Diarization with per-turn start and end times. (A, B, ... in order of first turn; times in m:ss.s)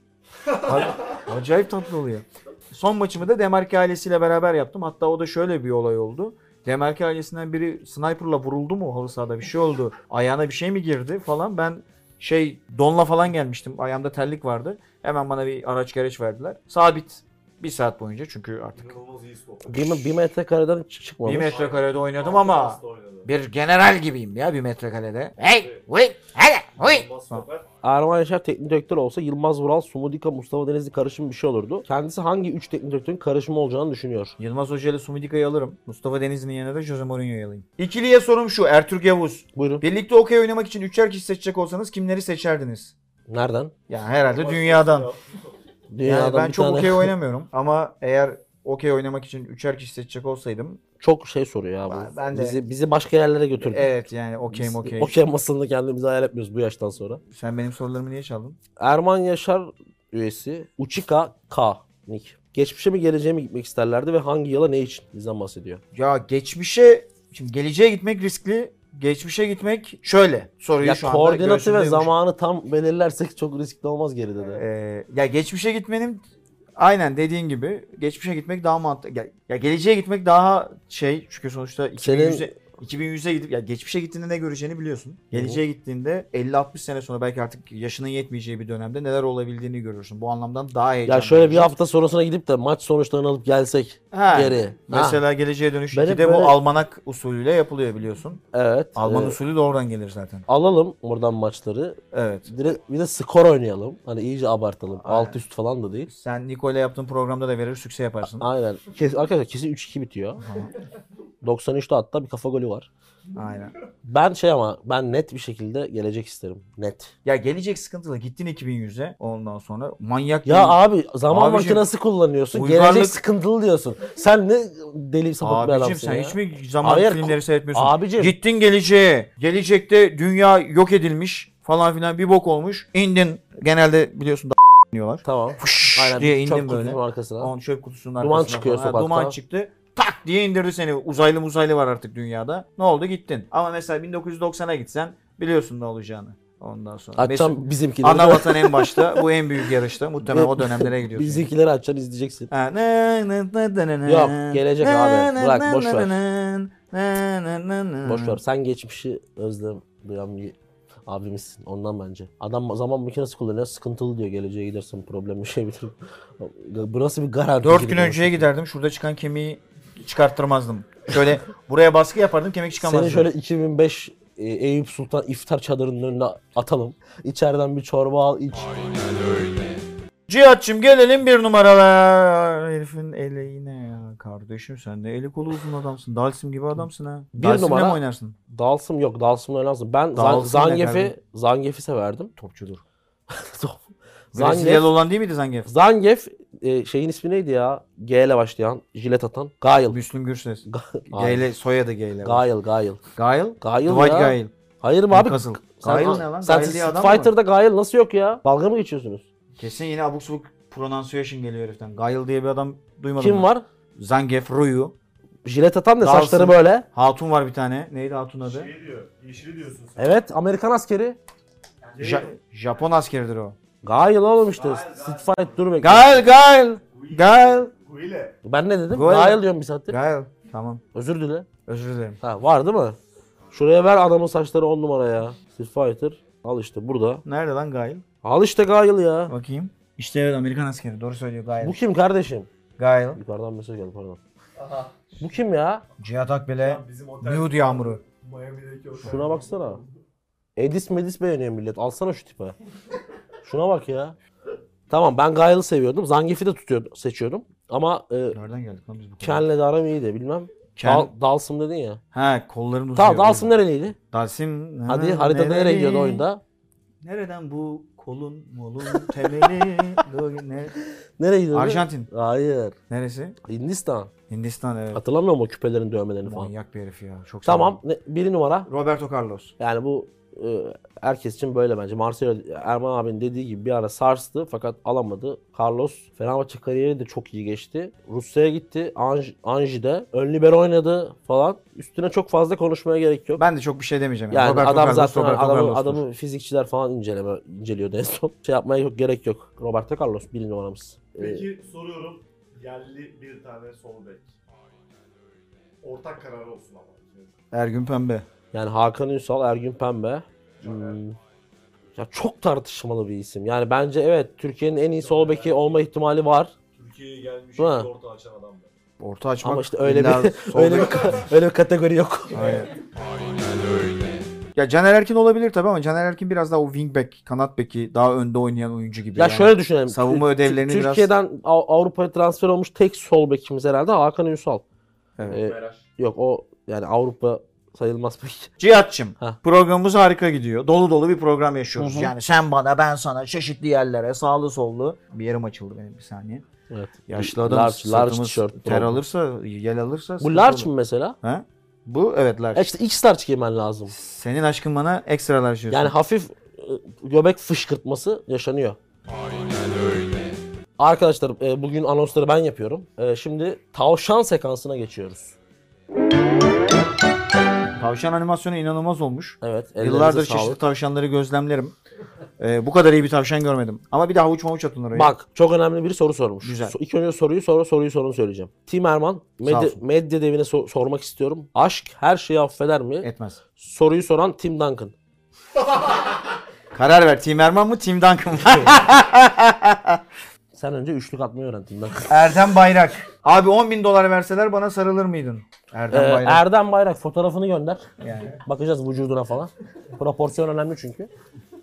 0:00.6-0:19.0 A
0:18.8-0:20.0 B
0:19.7-0:21.6 C
0:21.2-0:27.4 A
0:21.4-0:23.3 B
0:25.6-0:25.8 B
0:26.8-0:27.7 B
0:27.8-0:34.4 C
0:34.4-0:42.9 A
0:39.6-0:39.8 C
0:43.3-0:43.7 C
0:43.9-0:45.1 A
0:44.2-0:45.4 B
0:45.9-0:47.1 C
0:46.0-0:50.8 A
0:51.0-0:53.9 C
0:51.9-0:52.6 A
0:53.6-0:55.2 A
0:54.5-0:57.2 C
0:57.3-0:58.6 A
0:58.8-1:05.8 C
1:05.9-1:12.1 A
1:10.8-1:14.6 C
1:14.5-1:16.2 A
1:16.8-1:31.7 A
1:22.0-1:22.5 C
1:25.3-1:25.6 C
1:31.1-1:35.2 C
1:34.1-1:38.4 A
1:35.9-1:36.6 C
1:38.5-1:39.4 C
1:39.0-1:40.4 A
1:40.5-1:46.1 C
1:42.1-1:42.5 A
1:45.0-1:45.4 A
1:46.1-1:48.5 A
1:48.4-1:50.4 C
1:50.4-1:50.7 A
1:51.4-1:52.9 C
1:53.4-1:53.7 A
1:54.0-1:57.1 C
1:57.2-2:01.9 A
2:00.5-2:08.3 C
2:02.5-2:03.2 A
2:05.4-2:31.5 A
2:15.2-2:17.5 C
2:18.2-2:19.4 C
2:27.2-2:29.3 C
2:30.3-2:32.5 C
2:32.5-2:38.4 A
2:34.1-2:36.2 C
2:38.0-2:40.6 C
2:41.1-2:48.5 C
2:47.6-2:53.3 A
2:52.8-2:59.6 C
3:00.3-3:08.4 A
3:07.3-3:12.3 C
3:10.2-3:11.2 A
3:12.4-3:12.8 A
3:13.3-3:14.9 C
3:14.3-3:15.7 A
3:15.7-3:20.0 C
3:19.9-3:22.4 A
3:20.7-3:21.5 C
3:22.2-3:23.0 C
3:23.2-3:24.5 A
3:23.6-3:29.2 C
3:25.1-3:27.3 A
3:29.6-3:35.0 A
3:33.2-3:33.6 C
3:35.4-3:36.9 C
3:36.0-3:38.7 A
3:38.4-3:40.2 B
3:40.0-3:41.2 C
3:41.9-3:42.3 B
3:42.0-3:43.6 A
3:43.8-3:46.3 C
3:44.5-3:45.8 B
3:45.8-3:47.7 A
3:46.8-3:48.4 B
3:48.4-3:50.0 C
3:48.9-3:50.8 A
3:50.9-3:51.5 C
3:51.7-3:52.2 A
3:52.2-3:53.0 C
3:53.5-3:57.2 C
3:57.2-3:58.0 A
3:58.2-3:59.4 C
3:59.3-4:01.8 A
4:01.6-4:02.5 C
4:02.8-4:03.2 A
4:03.2-4:04.2 C
4:04.6-4:05.4 B
4:05.2-4:05.8 C
4:06.0-4:08.0 A
4:06.6-4:09.9 B
4:09.0-4:09.8 C
4:10.6-4:12.6 C
4:13.4-4:14.2 C
4:14.9-4:18.4 C
4:18.3-4:19.5 A
4:19.2-4:22.0 C
4:20.8-4:21.1 A
4:22.1-4:23.6 A
4:23.0-4:24.0 C
4:24.1-4:26.2 A
4:24.9-4:26.4 C
4:27.0-4:30.8 A
4:28.9-4:29.4 C
4:31.2-4:32.8 C
4:31.5-4:32.1 A
4:32.9-4:33.4 A
4:33.4-4:34.1 C
4:34.3-4:35.0 A
4:34.9-4:36.5 C
4:36.2-4:37.8 A
4:37.4-4:38.7 C
4:38.7-4:39.5 A
4:39.6-4:53.4 C
4:53.4-4:56.0 A
4:54.3-5:01.5 C
5:01.2-5:04.3 B
5:05.8-5:07.4 B
5:07.5-5:08.2 A
5:08.5-5:11.2 C
5:10.6-5:11.0 B
5:12.0-5:16.5 C
5:15.0-5:15.8 B
5:16.8-5:18.7 B
5:17.6-5:17.9 C
5:19.0-5:21.0 A
5:19.4-5:22.6 C
5:22.3-5:22.7 A
5:24.6-5:31.1 A
5:29.2-5:34.6 C
5:35.2-5:35.5 A
5:35.3-5:38.5 C
5:38.6-5:46.4 A
5:41.8-5:42.2 C
5:46.7-5:49.0 C
5:47.1-5:50.7 A
5:50.2-5:51.2 C
5:51.2-5:52.7 A
5:52.6-5:53.9 C
5:53.9-5:55.9 A
5:55.7-5:58.8 C
6:00.8-6:05.4 C
6:07.8-6:11.8 A
6:09.4-6:10.6 C
6:12.4-6:15.1 A
6:15.0-6:24.9 C
6:16.4-6:16.7 A
6:19.4-6:19.8 A
6:23.0-6:23.4 A
6:26.7-6:30.0 A
6:30.5-6:32.4 C
6:32.1-6:36.4 A
6:35.9-6:37.9 C
6:38.0-6:38.4 A
6:38.4-6:41.1 C